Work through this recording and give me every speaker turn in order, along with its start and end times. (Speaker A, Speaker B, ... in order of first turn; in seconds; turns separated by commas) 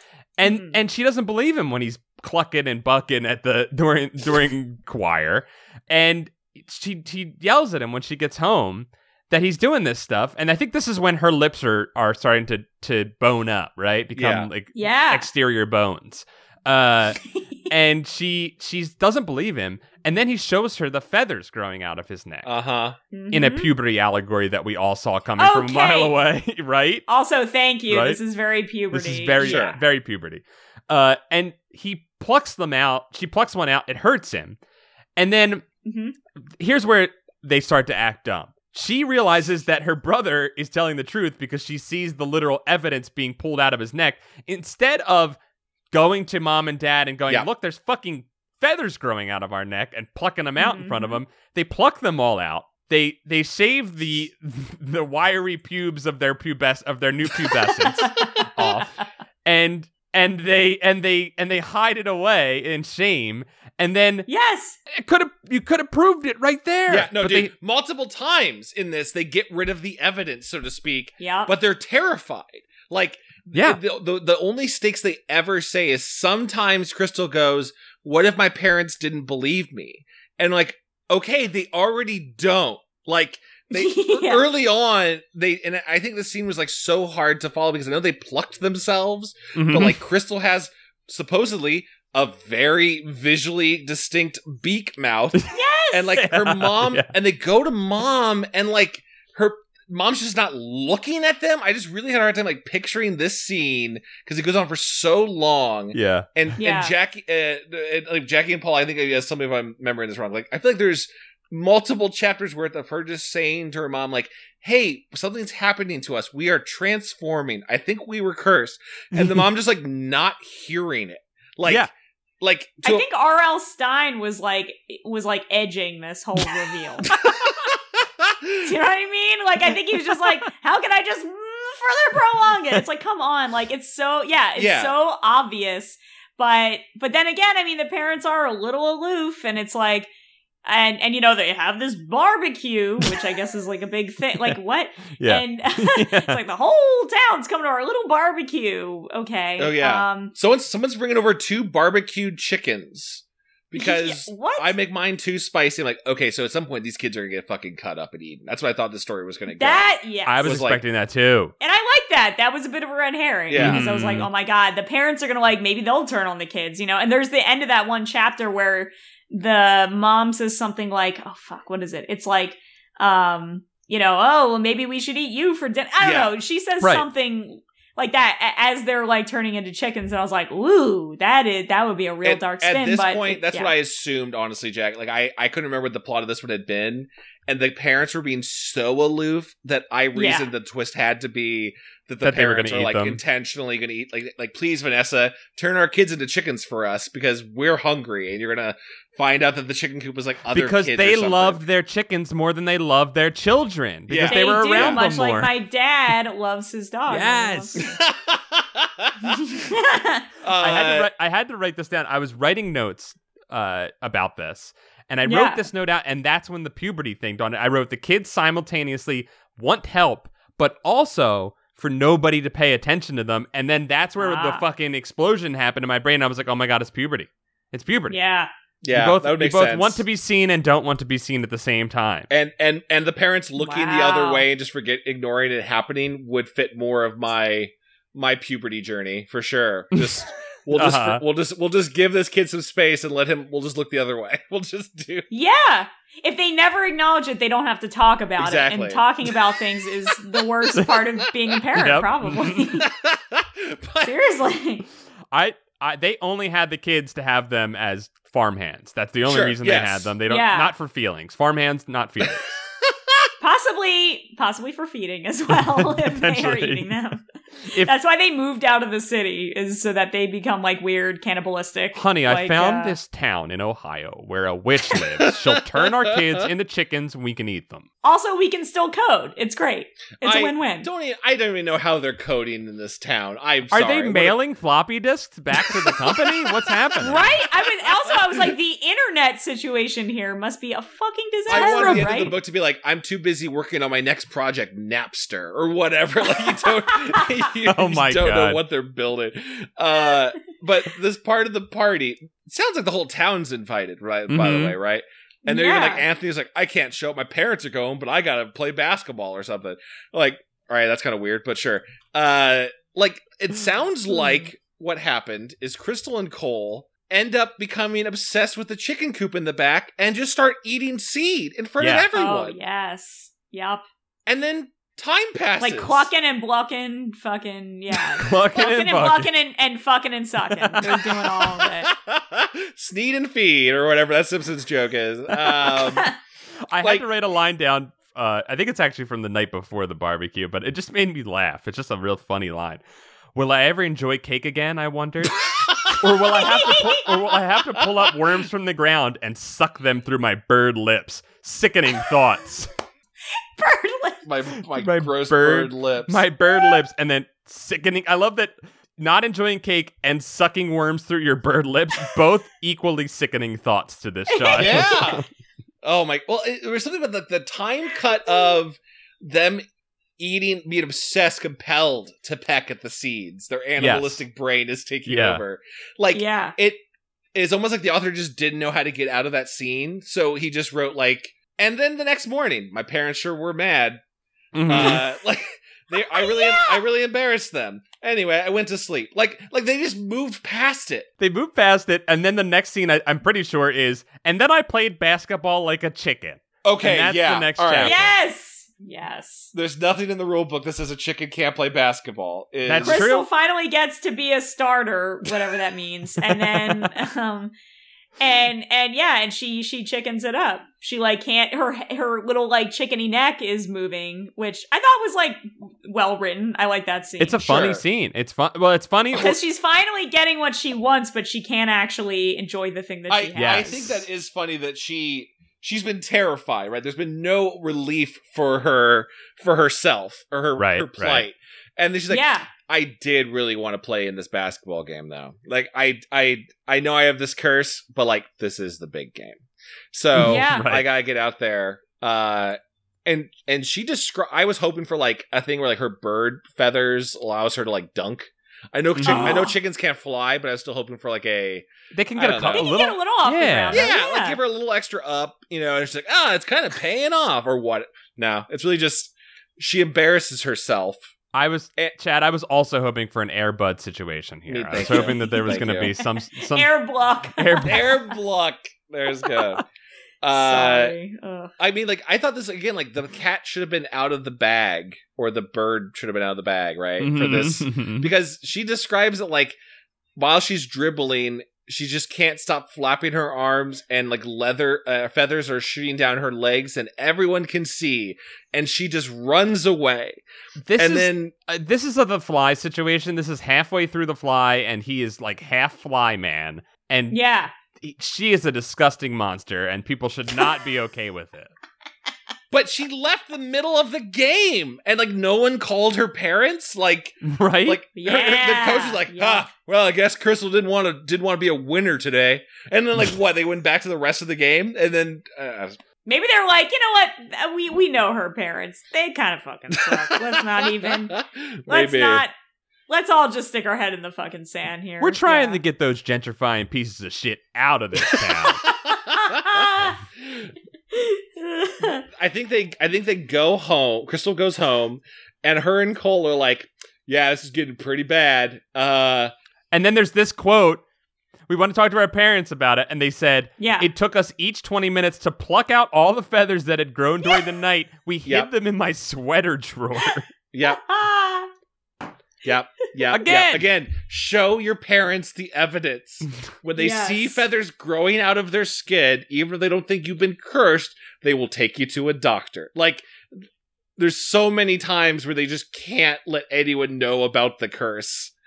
Speaker A: 0.4-22.5, Speaker B: 0.4-0.8, Speaker C: 14.2-14.5, Speaker B: 14.8-15.3, Speaker C: 22.4-23.0, Speaker B: 23.1-23.7, Speaker A: 23.3-27.1, Speaker B: 25.4-26.1, Speaker B: 27.1-29.8, Speaker A: 27.9-28.2, Speaker A: 28.9-34.6, Speaker C: 29.4-29.8, Speaker A: 35.2-35.6, Speaker B: 35.9-36.1, Speaker A: 36.6-45.4, Speaker A: 45.9-64.3, Speaker B: 50.6-51.2, Speaker B: 58.0-58.7, Speaker B: 64.3-64.8, Speaker A: 64.9-67.5, Speaker C: 66.9-121.9, Speaker B: 71.2-71.5, Speaker A: 73.5-73.8, Speaker B: 83.7-84.5, Speaker A: 89.5-90.0, Speaker B: 95.5-96.2, Speaker A: 96.1-97.1, Speaker A: 105.9-106.5, Speaker B: 106.6-107.0, Speaker A: 119.1-119.4, Speaker A: 121.7-121.9, Speaker C: 122.4-123.1, Speaker B: 122.8-127.5, Speaker C: 127.2-128.7, Speaker B: 128.6-140.1, Speaker C: 134.6-134.9, Speaker B: 140.7-150.3, Speaker A: 145.2-146.4, Speaker C: 149.6-159.9, Speaker B: 153.8-154.8, Speaker B: 159.5-160.5, Speaker A: 160.3-161.5, Speaker C: 160.4-160.8, Speaker B: 161.6-183.7, Speaker C: 163.5-163.9, Speaker A: 163.6-164.3, Speaker C: 176.0-176.3, Speaker C: 182.2-201.6, Speaker B: 190.2-190.5, Speaker A: 192.2-193.2, Speaker A: 200.5-205.6, Speaker C: 204.1-205.1, Speaker B: 204.2-207.9, Speaker A: 207.1-207.8, Speaker C: 207.8-209.6, Speaker B: 209.3-210.2, Speaker C: 210.4-211.1, Speaker A: 210.6-228.2, Speaker B: 215.2-215.7, Speaker B: 224.2-224.7, Speaker B: 228.1-228.5, Speaker C: 228.8-230.0, Speaker A: 228.9-232.3, Speaker C: 232.3-245.3, Speaker B: 233.6-234.5, Speaker A: 239.9-240.2, Speaker A: 240.7-241.2, Speaker B: 245.3-252.9, Speaker C: 248.4-249.6, Speaker A: 251.8-252.7, Speaker C: 252.8-254.2, Speaker B: 254.0-254.9, Speaker A: 255.3-262.6, Speaker C: 259.3-260.1, Speaker B: 260.3-260.7, Speaker B: 263.4-273.0, Speaker A: 265.5-266.9, Speaker A: 271.9-277.9, Speaker C: 275.3-276.4, Speaker B: 278.0-280.9, Speaker C: 280.2-284.4, Speaker A: 283.7-287.3, Speaker C: 285.6-286.5, Speaker B: 287.0-292.3, Speaker C: 287.9-288.1, Speaker C: 291.5-322.6, Speaker A: 291.5-292.3, Speaker B: 296.4-297.2, Speaker A: 297.6-298.6, Speaker A: 304.3-304.8, Speaker B: 305.5-306.1, Speaker B: 314.1-314.4, Speaker A: 321.8-322.1, Speaker B: 322.1-323.8, Speaker C: 324.3-326.1, Speaker B: 325.6-331.9, Speaker A: 328.2-329.3, Speaker A: 330.5-331.1, Speaker C: 331.6-336.1, Speaker A: 335.5-335.7, Speaker A: 336.7-342.8, Speaker C: 336.8-337.1, Speaker A: 343.4-352.7, Speaker B: 346.2-347.3, Speaker B: 353.6-354.3, Speaker C: 354.2-356.2, Speaker A: 354.8-365.2, Speaker B: 364.3-365.2, Speaker C: 364.5-365.2, Speaker C: 365.8-369.6, Speaker C: 370.2-376.8, Speaker A: 373.8-374.2, Speaker A: 375.1-375.4, Speaker B: 376.1-376.6, Speaker C: 377.4-384.0, Speaker A: 384.5-385.1, Speaker C: 384.7-391.1, Speaker B: 386.0-386.8, Speaker A: 391.2-398.1, Speaker C: 396.6-398.0, Speaker B: 397.8-399.5, Speaker C: 399.5-403.0, Speaker A: 402.7-403.3, Speaker B: 402.8-407.5, Speaker A: 406.4-406.7, Speaker B: 408.2-417.6, Speaker A: 417.2-419.4, Speaker C: 417.4-417.8, Speaker B: 419.1-423.9, Speaker C: 423.1-439.4, Speaker A: 423.4-424.0, Speaker A: 430.6-431.3, Speaker B: 432.1-432.5, Speaker C: 439.9-452.7, Speaker B: 440.1-440.7, Speaker A: 440.2-440.9, Speaker A: 448.9-449.4, Speaker B: 449.1-449.6, Speaker A: 451.9-453.9, Speaker B: 452.5-454.4, Speaker C: 453.7-461.1, Speaker A: 461.3-466.7, Speaker C: 464.5-465.9, Speaker B: 464.8-468.1, Speaker A: 467.2-468.0, Speaker C: 467.6-469.6, Speaker C: 470.2-471.0, Speaker B: 470.3-471.5, Speaker C: 471.6-479.6, Speaker A: 477.0-478.1, Speaker C: 480.2-490.2, Speaker A: 490.6-497.2, Speaker C: 490.8-491.3, Speaker B: 497.1-497.5, Speaker A: 497.8-501.5, Speaker C: 502.5-515.8, Speaker A: 507.2-507.8, Speaker B: 507.9-509.5, Speaker B: 516.0-522.3, Speaker C: 519.8-522.3, Speaker B: 522.9-525.6, Speaker A: 525.0-528.7, Speaker B: 528.9-530.0, Speaker C: 529.3-529.6, Speaker C: 530.2-530.5, Speaker B: 530.9-532.0, Speaker C: 532.1-539.3, Speaker A: 539.7-540.8, Speaker A: 541.5-550.3, Speaker B: 543.6-543.9, Speaker C: 550.5-550.8, Speaker B: 550.6-551.5, Speaker C: 552.4-563.1, Speaker A: 553.1-553.7, Speaker B: 556.8-557.4, Speaker C: 564.0-568.3